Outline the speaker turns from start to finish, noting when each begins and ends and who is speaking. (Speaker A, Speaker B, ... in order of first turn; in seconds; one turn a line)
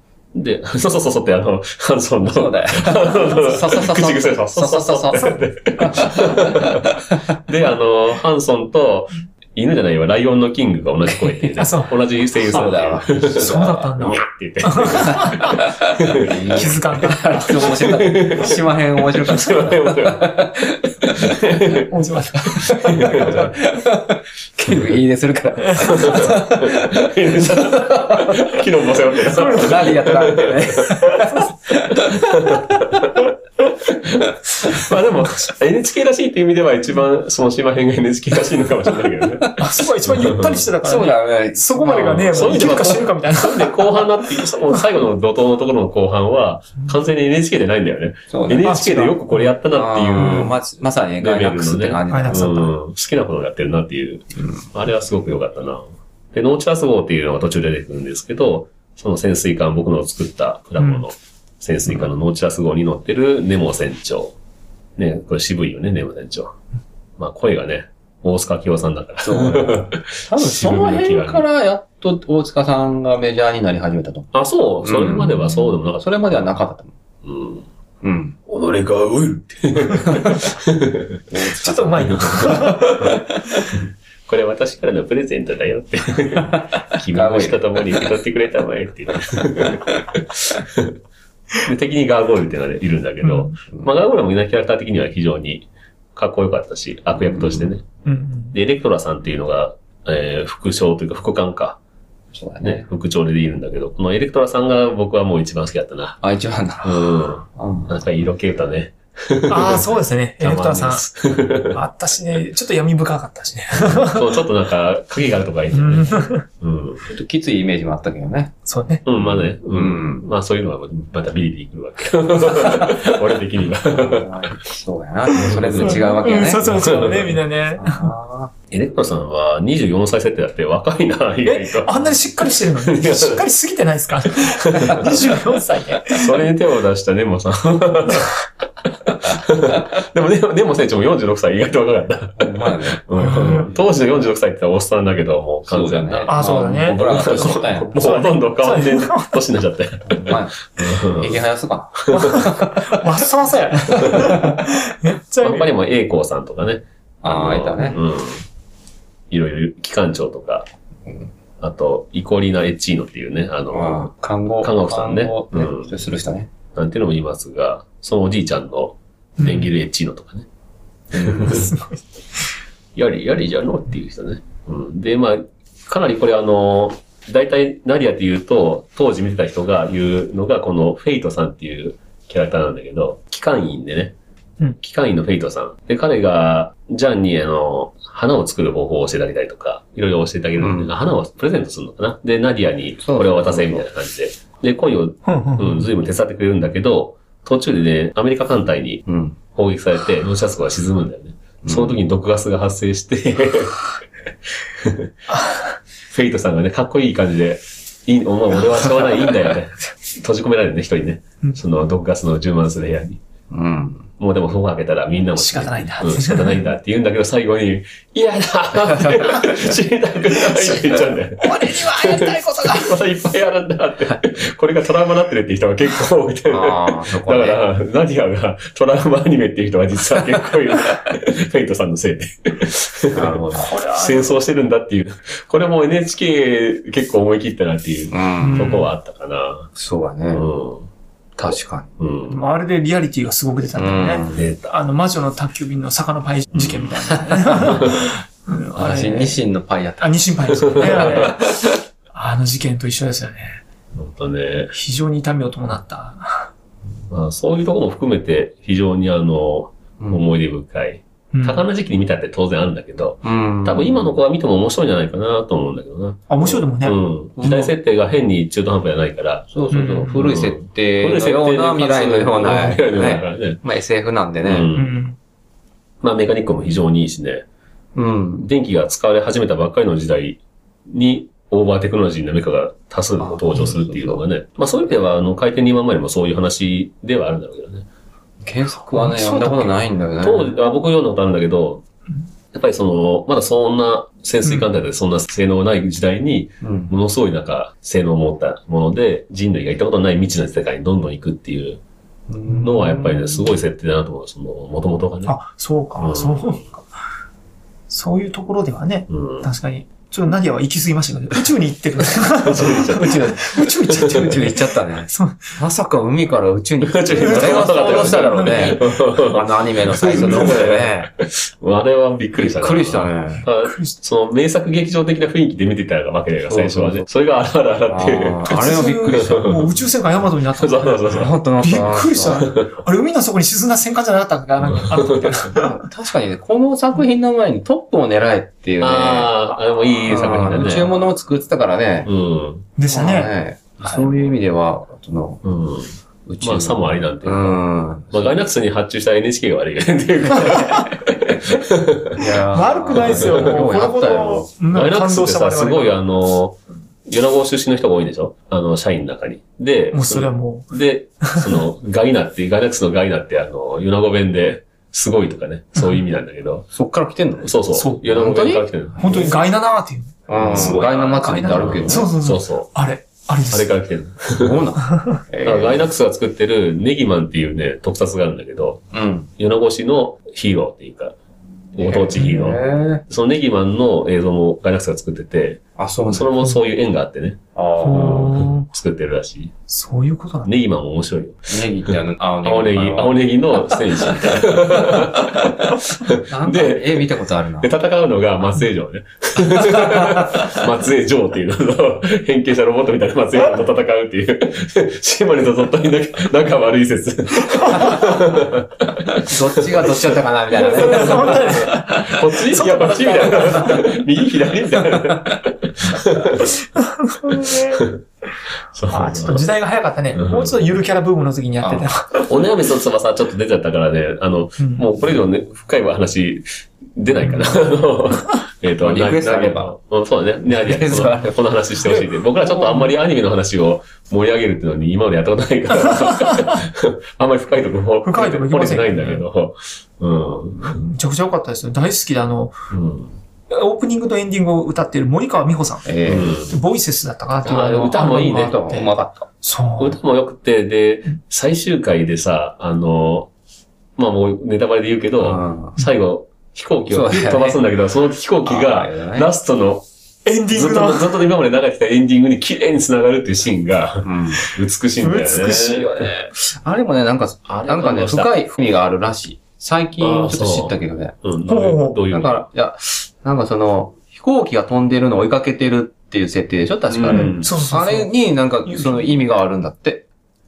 Speaker A: 0.3-16.3
Speaker B: 2.2-7.0
Speaker C: 11.6-11.9
Speaker B: 12.4-13.6
Speaker C: 13.3-15.6
Speaker B: 15.3-20.7
Speaker C: 16.5-18.0
Speaker A: 17.6-21.9
Speaker C: 21.9-23.4
Speaker A: 22.5-23.5
Speaker B: 22.8-28.3
Speaker C: 25.8-26.4
Speaker A: 25.8-31.1
Speaker B: 29.2-32.6
Speaker C: 29.3-30.1
Speaker A: 32.0-33.3
Speaker A: 33.9-39.7
Speaker C: 39.6-43.9
Speaker A: 40.2-40.7
Speaker B: 40.8-43.0
Speaker A: 42.1-50.6
Speaker B: 48.3-48.7
Speaker C: 48.6-49.6
Speaker B: 49.7-52.7
Speaker C: 50.2-50.5
Speaker A: 51.2-64.3
Speaker C: 52.1-52.6
Speaker C: 60.8-61.1
Speaker A: 65.0-66.5
Speaker A: 67.2-71.5
Speaker B: 69.2-76.9
Speaker A: 74.3-76.6
Speaker A: 77.2-77.7
Speaker B: 78.0-78.4
Speaker A: 78.5-81.2
Speaker B: 81.3-83.3
Speaker C: 81.4-83.1
Speaker A: 82.1-82.5
Speaker A: 84.3-91.0
Speaker B: 87.1-87.9
Speaker A: 91.7-97.9
Speaker C: 93.2-93.6
Speaker B: 97.2-97.7
Speaker C: 98.0-98.6
Speaker A: 98.5-101.8
Speaker B: 102.3-102.9
Speaker A: 102.6-106.2
Speaker B: 106.2-108.2
Speaker A: 106.8-111.8
Speaker C: 109.5-114.4
Speaker A: 113.7-117.1
Speaker C: 115.7-116.5
Speaker B: 117.0-118.5
Speaker C: 118.7-119.1
Speaker A: 119.1-124.6
Speaker B: 119.2-120.3
Speaker B: 123.9-127.1
Speaker A: 125.3-127.4
Speaker C: 125.4-128.1
Speaker B: 127.7-128.5
Speaker A: 128.7-133.5
Speaker C: 131.4-136.4
Speaker A: 134.2-135.4
Speaker A: 136.1-138.3
Speaker A: 139.1-151.4
Speaker B: 142.4-143.8
Speaker C: 143.2-143.7
Speaker B: 145.7-148.1
Speaker C: 146.3-149.4
Speaker B: 150.0-153.0
Speaker A: 152.0-152.5
Speaker C: 152.2-155.7
Speaker B: 153.9-154.6
Speaker A: 153.9-154.3
Speaker A: 155.4-158.4
Speaker B: 157.2-158.0
Speaker A: 159.3-160.7
Speaker A: 161.6-166.0
Speaker B: 163.7-166.5
Speaker A: 166.8-170.5
Speaker C: 169.4-169.7
Speaker B: 171.1-171.7
Speaker A: 171.1-171.7
Speaker C: 171.5-172.0
Speaker A: 172.9-184.2
Speaker A: 184.8-199.0
Speaker B: 190.6-190.9
Speaker B: 193.0-193.9
Speaker C: 195.3-195.9
Speaker B: 199.1-199.4
Speaker A: 199.6-203.9
Speaker B: 201.6-202.0
Speaker A: 204.8-205.1
Speaker A: 206.1-213.2
Speaker B: 213.5-214.1
Speaker A: 214.2-239.7
Speaker C: 215.3-216.7
Speaker C: 220.4-223.0
Speaker B: 226.5-227.7
Speaker B: 233.1-233.7
Speaker C: 233.5-234.4
Speaker B: 238.1-238.9
Speaker C: 238.4-238.9
Speaker B: 239.8-240.5
Speaker A: 240.3-242.5
Speaker B: 241.4-241.9
Speaker C: 242.3-249.4
Speaker B: 243.8-244.5
Speaker A: 244.3-244.7
Speaker A: 246.5-247.0
Speaker B: 247.3-247.9
Speaker A: 247.8-248.1
Speaker B: 248.8-251.4
Speaker C: 250.0-251.5
Speaker A: 250.7-251.3
Speaker C: 252.1-253.6
Speaker A: 254.0-254.7
Speaker C: 254.7-256.5
Speaker A: 257.1-269.7
Speaker B: 260.0-260.3
Speaker C: 261.3-261.7
Speaker B: 263.2-264.2
Speaker C: 266.3-267.7
Speaker B: 267.4-267.7
Speaker B: 269.5-274.7
Speaker C: 269.7-270.3
Speaker A: 270.2-273.6
Speaker C: 272.4-272.8
Speaker A: 274.5-275.0
Speaker C: 274.7-275.2
Speaker A: 276.0-277.4
Speaker B: 277.9-278.5
Speaker A: 278.4-287.9
Speaker B: 283.2-284.2
Speaker B: 288.4-290.5
Speaker C: 288.9-289.8
Speaker A: 290.2-291.8
Speaker A: 292.5-301.8
Speaker B: 296.6-296.9
Speaker B: 302.3-303.5
Speaker C: 302.5-302.8
Speaker A: 302.6-305.3
Speaker C: 305.2-306.9
Speaker A: 306.0-306.6
Speaker C: 307.9-315.6
Speaker A: 309.1-309.5
Speaker A: 312.4-314.4
Speaker B: 314.0-321.1
Speaker A: 316.8-329.7
Speaker C: 317.2-318.9
Speaker C: 320.1-320.5
Speaker B: 322.4-323.5
Speaker C: 323.6-324.0
Speaker B: 326.4-327.1
Speaker B: 327.9-329.4
Speaker C: 328.5-335.8
Speaker A: 330.6-331.3
Speaker B: 331.1-332.5
Speaker A: 332.4-332.7
Speaker A: 334.8-335.4
Speaker B: 335.5-339.4
Speaker A: 338.8-340.9
Speaker B: 340.1-342.1
Speaker C: 340.3-340.9
Speaker A: 342.0-342.7
Speaker C: 342.8-344.1
Speaker B: 342.9-345.4
Speaker A: 345.4-352.2
Speaker B: 346.3-348.4
Speaker B: 352.1-354.5
Speaker C: 352.5-356.0
Speaker A: 352.9-353.5
Speaker A: 354.7-366.7
Speaker C: 359.9-360.7
Speaker C: 361.3-361.6
Speaker C: 365.8-366.0
Speaker B: 366.7-369.4
Speaker A: 367.4-369.4
Speaker C: 367.7-368.2
Speaker C: 369.0-373.7
Speaker B: 370.3-372.1
Speaker A: 370.4-372.7
Speaker A: 373.5-374.6
Speaker B: 374.4-375.9
Speaker C: 374.8-375.2
Speaker A: 375.4-378.8
Speaker B: 378.9-379.3
Speaker A: 379.4-381.1
Speaker A: 381.7-387.4
Speaker B: 381.8-383.0
Speaker B: 385.8-386.4
Speaker B: 387.6-388.3
Speaker C: 387.8-388.7
Speaker A: 387.9-389.5
Speaker C: 389.7-390.5
Speaker A: 390.4-416.6
Speaker B: 391.5-395.5
Speaker B: 396.3-397.7
Speaker B: 409.2-412.0
Speaker C: 410.8-413.9
Speaker C: 416.4-417.9
Speaker A: 417.3-418.0
Speaker A: 418.7-419.5
Speaker C: 418.9-422.3
Speaker A: 420.1-420.6
Speaker B: 421.6-421.9
Speaker A: 422.1-440.8
Speaker C: 424.6-424.9
Speaker B: 428.8-429.8
Speaker B: 430.5-431.5
Speaker C: 432.0-432.9
Speaker C: 435.9-436.4
Speaker C: 438.0-439.2
Speaker C: 440.6-442.6
Speaker A: 442.7-443.1
Speaker C: 443.5-450.0
Speaker B: 445.9-446.4
Speaker A: 446.1-446.6
Speaker B: 447.4-449.3
Speaker A: 448.0-448.3
Speaker A: 449.8-453.3
Speaker A: 454.0-459.9
Speaker B: 455.2-455.8
Speaker B: 456.9-457.6
Speaker B: 458.4-459.3
Speaker C: 460.3-461.3
Speaker A: 460.5-466.1
Speaker B: 464.0-464.5
Speaker C: 465.0-466.1
Speaker B: 466.1-471.2
Speaker A: 467.5-468.5
Speaker A: 470.0-472.5
Speaker C: 471.5-472.0
Speaker B: 472.1-480.1
Speaker A: 476.9-477.5
Speaker C: 477.1-479.1